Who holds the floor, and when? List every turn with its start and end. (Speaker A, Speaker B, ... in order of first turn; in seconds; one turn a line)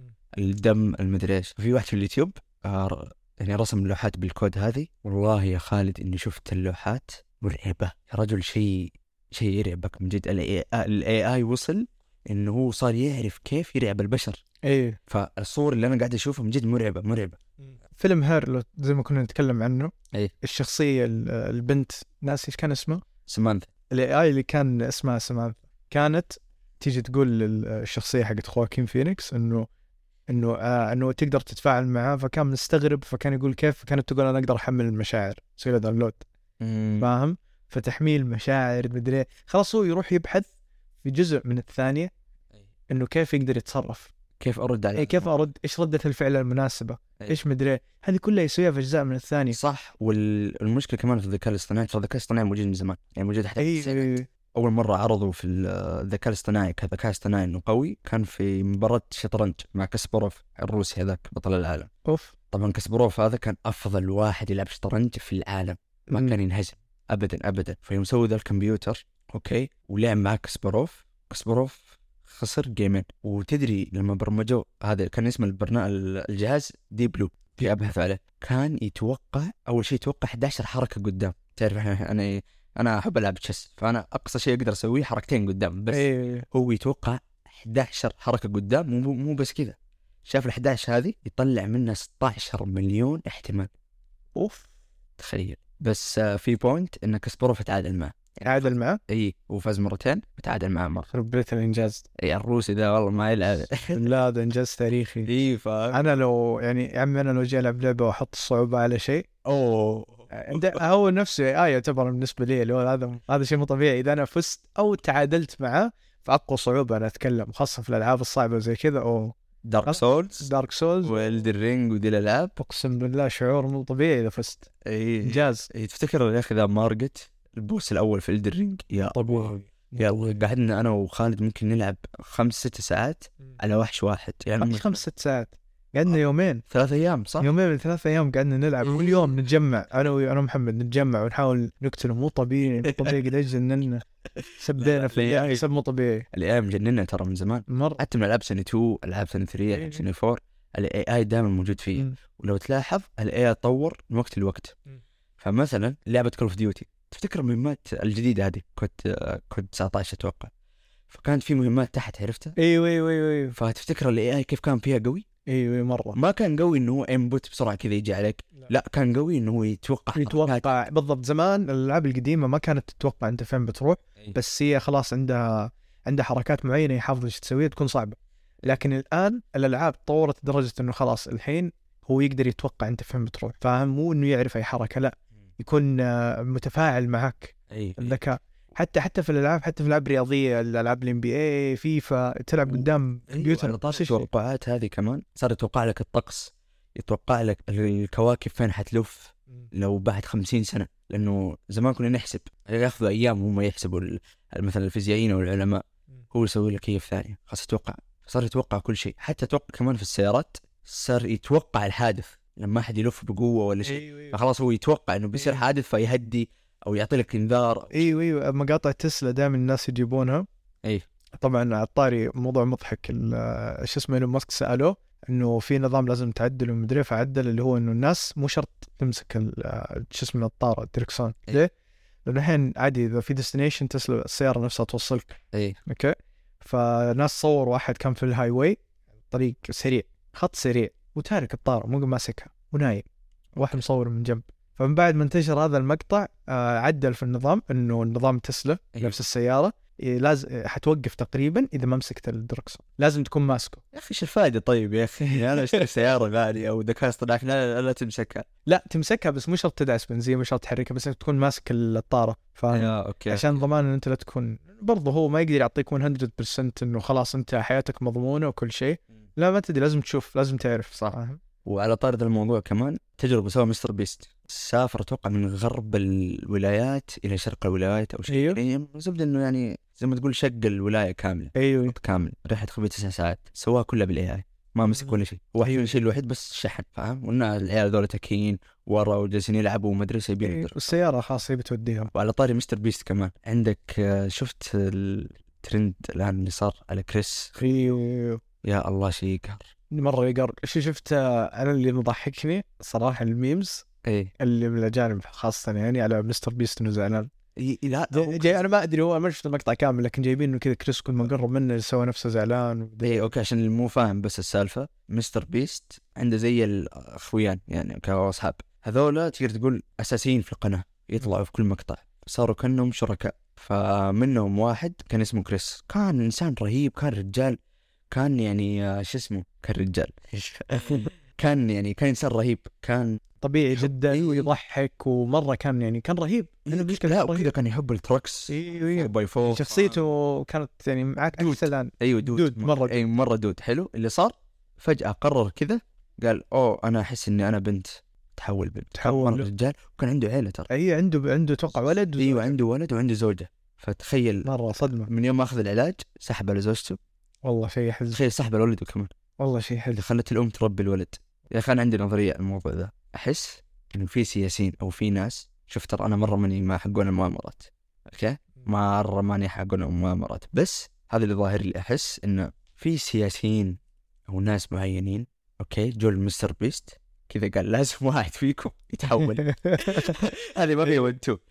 Speaker A: 0.4-14.4
Speaker B: 14.6-15.0
Speaker A: 15.1-17.4
Speaker B: 17.9-23.0
Speaker A: 23.3-23.7
Speaker B: 23.9-29.7
Speaker B: 30.3-36.2
Speaker A: 36.6-37.1
Speaker B: 37.0-40.5
Speaker B: 41.0-42.1
Speaker B: 42.9-44.1
Speaker A: 44.4-45.3
Speaker B: 45.0-49.6
Speaker A: 49.5-61.9
Speaker B: 53.6-54.3
Speaker B: 62.0-62.3
Speaker A: 62.5-93.7
Speaker B: 66.1-66.3
Speaker B: 85.9-86.5
Speaker B: 94.4-94.7
Speaker A: 95.2-101.1
Speaker B: 98.4-99.0
Speaker B: 101.1-102.1
Speaker A: 102.2-104.1
Speaker B: 103.9-105.3
Speaker A: 105.2-106.0
Speaker B: 105.9-109.3
Speaker A: 109.5-110.8
Speaker B: 110.3-119.3
Speaker A: 119.7-120.5
Speaker B: 119.9-121.2
Speaker A: 121.0-122.5
Speaker B: 122.6-124.7
Speaker A: 124.8-135.0
Speaker B: 125.2-125.7
Speaker B: 129.2-130.2
Speaker B: 134.6-136.7
Speaker A: 136.7-137.5
Speaker B: 137.4-144.0
Speaker A: 142.9-143.2
Speaker A: 144.4-145.6
Speaker B: 144.6-146.3
Speaker A: 146.3-154.8
Speaker B: 147.7-148.0
Speaker B: 149.7-150.0
Speaker A: 155.4-160.5
Speaker A: 161.1-162.6
Speaker B: 162.6-163.6
Speaker A: 163.5-165.2
Speaker B: 165.5-166.2
Speaker A: 166.2-170.8
Speaker B: 170.2-194.3
Speaker A: 187.7-188.2
Speaker A: 192.7-218.1
Speaker B: 213.8-214.4
Speaker B: 215.3-215.6
Speaker B: 217.9-220.5
Speaker B: 221.4-231.7
Speaker B: 232.2-253.8
Speaker A: 235.5-235.8
Speaker A: 253.9-258.5
Speaker B: 255.6-255.8
Speaker B: 258.7-271.4
Speaker A: 262.7-263.6
Speaker A: 271.6-290.9
Speaker B: 278.3-278.6
Speaker B: 281.6-282.0
Speaker B: 285.0-286.0
Speaker B: 290.4-292.1
Speaker A: 292.1-297.6
Speaker B: 297.6-298.4
Speaker A: 298.6-299.7
Speaker B: 299.9-303.9
Speaker A: 304.0-304.3
Speaker B: 304.4-307.3
Speaker A: 307.6-308.6
Speaker B: 308.1-313.3
Speaker A: 313.0-327.6
Speaker A: 328.1-333.2
Speaker B: 333.4-337.5
Speaker A: 333.8-334.5
Speaker A: 336.7-340.0
Speaker B: 338.5-343.0
Speaker A: 341.4-350.7
Speaker B: 349.0-349.5
Speaker B: 350.7-352.6
Speaker A: 352.2-357.0
Speaker B: 354.4-355.1
Speaker B: 357.4-358.2
Speaker A: 358.1-359.1
Speaker B: 359.4-360.0
Speaker A: 359.9-381.4
Speaker B: 379.1-380.2
Speaker B: 380.8-381.1